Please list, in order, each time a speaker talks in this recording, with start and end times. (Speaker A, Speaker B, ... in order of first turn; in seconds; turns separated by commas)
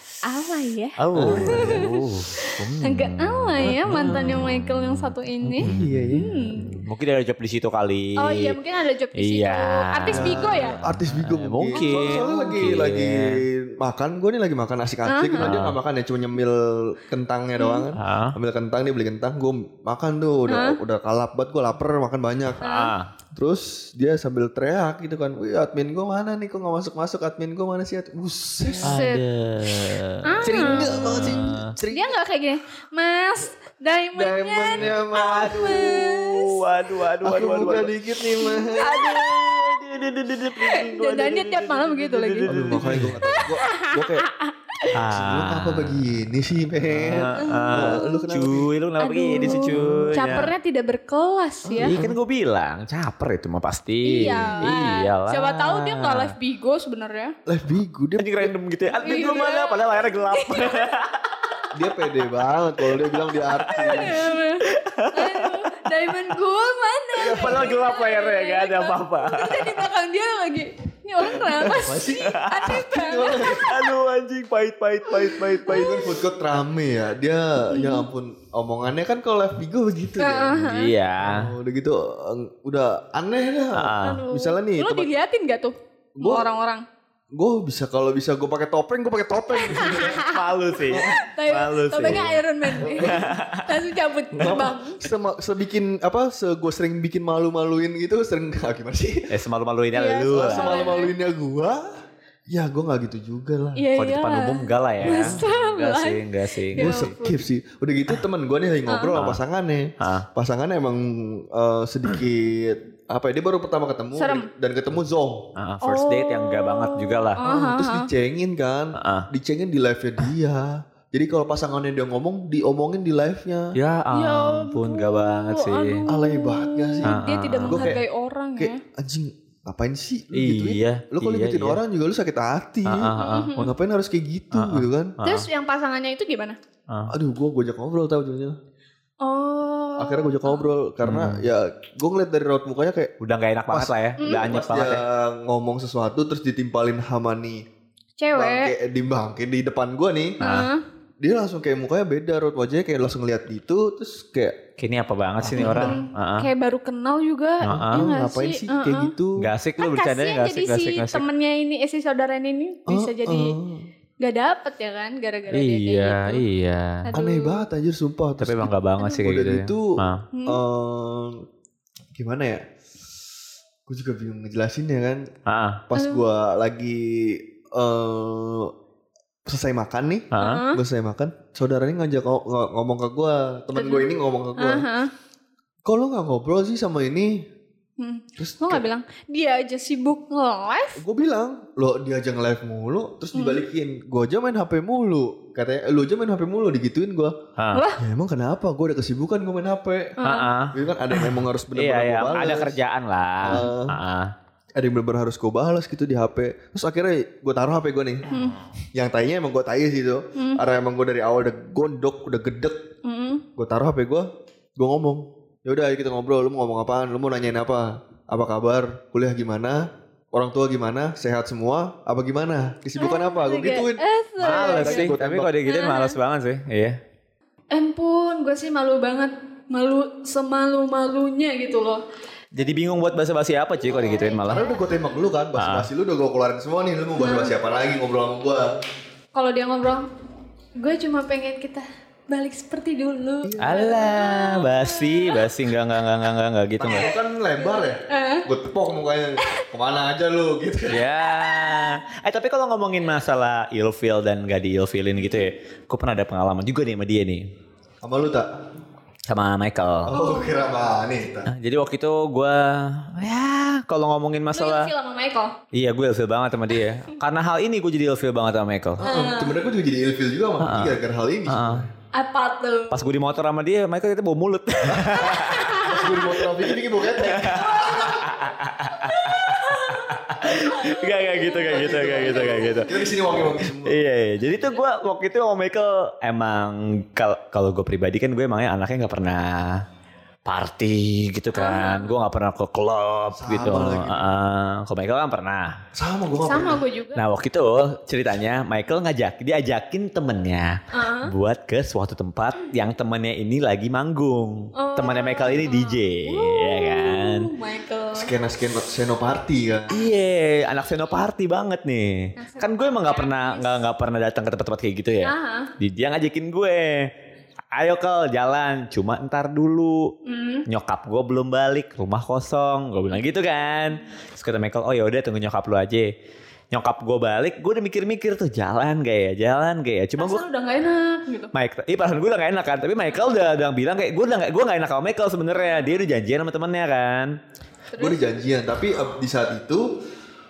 Speaker A: 0.2-6.7, Speaker B: 1.0-8.6, Speaker C: 1.1-1.9, Speaker C: 3.7-4.4, Speaker C: 5.6-6.3, Speaker A: 8.2-10.8, Speaker B: 9.2-13.4, Speaker C: 10.1-22.6, Speaker A: 11.7-12.2, Speaker A: 15.1-15.5, Speaker B: 15.4-15.8, Speaker A: 17.6-17.9, Speaker B: 17.9-18.3, Speaker A: 20.5-20.8, Speaker B: 22.6-23.1, Speaker A: 22.6-22.9, Speaker C: 23.3-29.0, Speaker A: 28.7-29.2, Speaker B: 28.8-31.8, Speaker A: 30.2-36.6, Speaker C: 30.4-32.1, Speaker C: 34.1-35.9, Speaker B: 34.8-37.9, Speaker C: 37.2-39.1, Speaker A: 38.4-39.7, Speaker B: 38.7-43.3, Speaker A: 40.5-44.9, Speaker C: 42.4-44.2, Speaker B: 44.9-46.1, Speaker C: 45.0-48.7, Speaker B: 46.9-50.5, Speaker A: 47.4-48.3, Speaker A: 49.0-51.9, Speaker C: 49.4-50.4, Speaker C: 51.6-52.2, Speaker B: 51.8-56.3, Speaker A: 54.0-57.3, Speaker C: 54.4-54.8, Speaker C: 57.5-58.5, Speaker B: 58.2-61.2, Speaker A: 59.0-60.9, Speaker C: 59.0-59.5, Speaker C: 61.7-64.4, Speaker B: 62.9-65.7, Speaker A: 63.7-73.8, Speaker C: 67.2-67.7, Speaker B: 67.2-69.9, Speaker C: 71.6-73.8, Speaker B: 71.6-72.8, Speaker B: 73.4-76.0, Speaker A: 75.1-76.1, Speaker C: 75.6-80.7, Speaker A: 77.7-78.1, Speaker A: 80.2-80.9, Speaker B: 80.6-81.5, Speaker C: 81.2-85.1, Speaker B: 83.7-84.2, Speaker A: 84.0-86.8, Speaker C: 86.2-86.5, Speaker C: 87.3-90.2, Speaker A: 89.6-95.0, Speaker B: 89.9-93.8, Speaker C: 90.9-91.1, Speaker C: 92.0-93.3, Speaker C: 94.3-99.3, Speaker B: 99.3-100.9, Speaker A: 99.9-101.1, Speaker C: 100.3-101.8, Speaker C: 102.5-103.9, Speaker A: 103.8-107.4, Speaker B: 104.0-107.1, Speaker C: 105.0-105.4, Speaker C: 106.8-115.5, Speaker A: 108.9-109.2, Speaker B: 109.1-109.4, Speaker B: 110.0-110.2, Speaker A: 114.2-114.5, Speaker B: 115.5-117.4, Speaker A: 115.8-118.1, Speaker C: 117.4-123.8, Speaker B: 119.0-119.3, Speaker B: 123.7-126.0, Speaker A: 124.1-128.8, Speaker C: 126.1-127.2, Speaker B: 127.0-128.0, Speaker C: 127.7-128.0, Speaker C: 128.6-135.2, Speaker B: 130.3-131.8, Speaker B: 132.8-133.7, Speaker A: 133.1-133.7, Speaker B: 134.5-135.5, Speaker A: 135.2-136.6, Speaker B: 136.9-137.1, Speaker C: 137.1-138.6, Speaker A: 139.2-140.7, Speaker C: 140.0-143.1, Speaker B: 141.0-141.4, Speaker B: 143.2-145.0, Speaker C: 143.7-147.6, Speaker A: 144.2-144.6, Speaker A: 148.2-148.7, Speaker C: 148.3-150.4, Speaker A: 150.4-150.8, Speaker B: 150.4-150.7, Speaker C: 151.2-154.6, Speaker B: 154.8-156.5, Speaker C: 155.4-156.0, Speaker A: 155.5-159.1, Speaker B: 157.6-158.1, Speaker C: 157.9-159.4, Speaker B: 159.4-161.2, Speaker A: 159.8-163.6, Speaker C: 162.9-163.8, Speaker A: 164.2-166.4, Speaker B: 165.5-167.1, Speaker A: 167.1-167.6, Speaker C: 167.1-171.4, Speaker B: 168.4-170.2, Speaker A: 170.3-170.6, Speaker C: 172.1-172.6, Speaker C: 173.9-175.2, Speaker B: 175.5-175.8, Speaker C: 175.9-178.7, Speaker A: 176.0-176.2, Speaker C: 179.4-184.9, Speaker B: 180.3-180.6, Speaker A: 180.4-180.8, Speaker A: 183.7-185.1, Speaker C: 185.9-187.4, Speaker A: 188.0-191.0, Speaker C: 188.4-188.8, Speaker C: 191.0-197.3, Speaker A: 193.3-193.6, Speaker B: 197.6-197.8, Speaker A: 197.7-198.0, Speaker C: 198.0-200.2, Speaker A: 200.2-200.5, Speaker B: 200.2-204.3, Speaker C: 200.7-202.8, Speaker C: 203.4-204.0, Speaker C: 204.8-208.3, Speaker A: 208.3-208.6, Speaker C: 208.9-212.8, Speaker A: 210.3-210.6, Speaker A: 213.0-213.4, Speaker C: 213.6-214.3, Speaker C: 214.8-219.8, Speaker C: 220.3-225.5, Speaker A: 223.0-225.1, Speaker B: 224.4-227.0, Speaker A: 225.7-226.2, Speaker A: 227.7-232.0, Speaker B: 232.5-234.6, Speaker A: 233.9-234.8, Speaker C: 234.2-238.8, Speaker B: 235.6-235.9, Speaker A: 237.2-237.5, Speaker A: 239.3-240.1, Speaker A: 240.8-245.5, Speaker C: 243.4-244.2, Speaker B: 243.6-247.1, Speaker C: 246.8-251.1, Speaker A: 247.6-248.4, Speaker B: 250.9-257.4, Speaker A: 251.4-251.9, Speaker A: 255.2-255.5, Speaker C: 258.0-258.5, Speaker B: 259.3-260.1, Speaker C: 260.0-261.5, Speaker A: 260.1-260.6, Speaker B: 261.5-264.9, Speaker A: 264.5-265.6, Speaker B: 265.7-269.0, Speaker C: 269.0-271.9, Speaker A: 269.0-269.5, Speaker B: 270.6-271.0, Speaker B: 271.5-271.8, Speaker A: 272.1-273.1, Speaker B: 272.9-276.1, Speaker C: 274.9-278.2, Speaker A: 275.1-276.5, Speaker B: 277.1-289.8, Speaker A: 277.5-282.9, Speaker C: 281.7-284.0, Speaker B: 290.4-295.8, Speaker A: 291.5-292.1, Speaker C: 293.3-294.3, Speaker C: 295.9-296.8, Speaker A: 296.4-297.2, Speaker B: 297.1-307.5, Speaker A: 300.9-301.3, Speaker A: 304.8-308.3, Speaker C: 308.1-310.0, Speaker B: 309.9-317.1, Speaker A: 312.4-313.8, Speaker A: 315.2-315.7, Speaker B: 317.7-320.1, Speaker A: 320.2-320.6, Speaker B: 320.7-326.1, Speaker B: 326.7-330.4, Speaker A: 330.2-331.5, Speaker B: 331.5-337.3, Speaker A: 337.9-338.4, Speaker C: 338.0-339.9